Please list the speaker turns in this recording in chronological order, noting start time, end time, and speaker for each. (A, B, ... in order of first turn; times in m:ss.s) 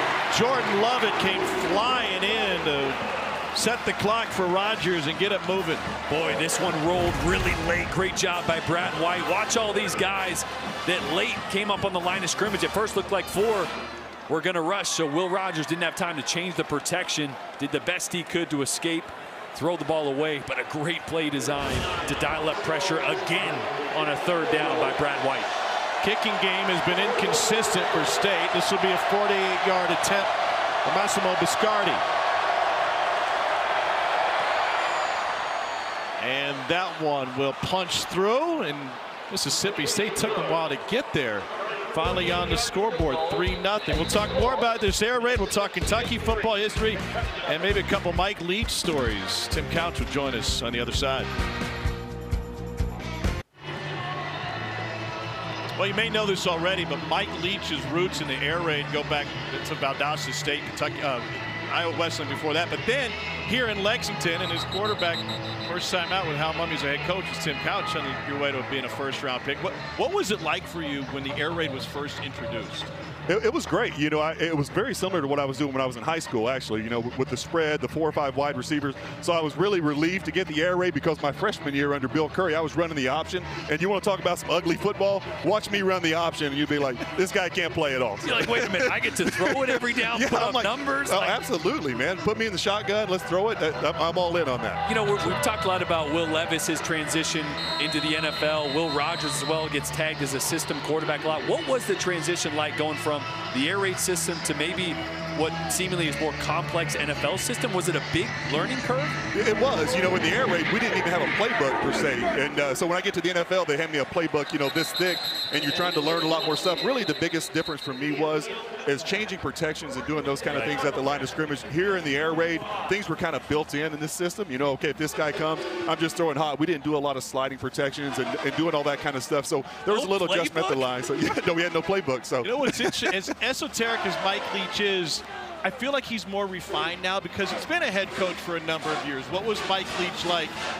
0:00.3-0:03.0 A
0:03.5-0:05.9 A
0:06.1-0:13.7 B
0:14.3-0:25.5 B
0:26.0-0:30.3 A
0:30.8-0:32.0 A
0:36.2-0:51.3 A
0:55.7-1:12.9 A
1:13.3-1:34.8 C
1:28.2-1:31.4 B
1:34.8-1:49.2 B
1:49.3-2:13.3 C
2:00.4-2:00.9 B
2:09.9-2:11.2 B
2:12.4-2:20.6 A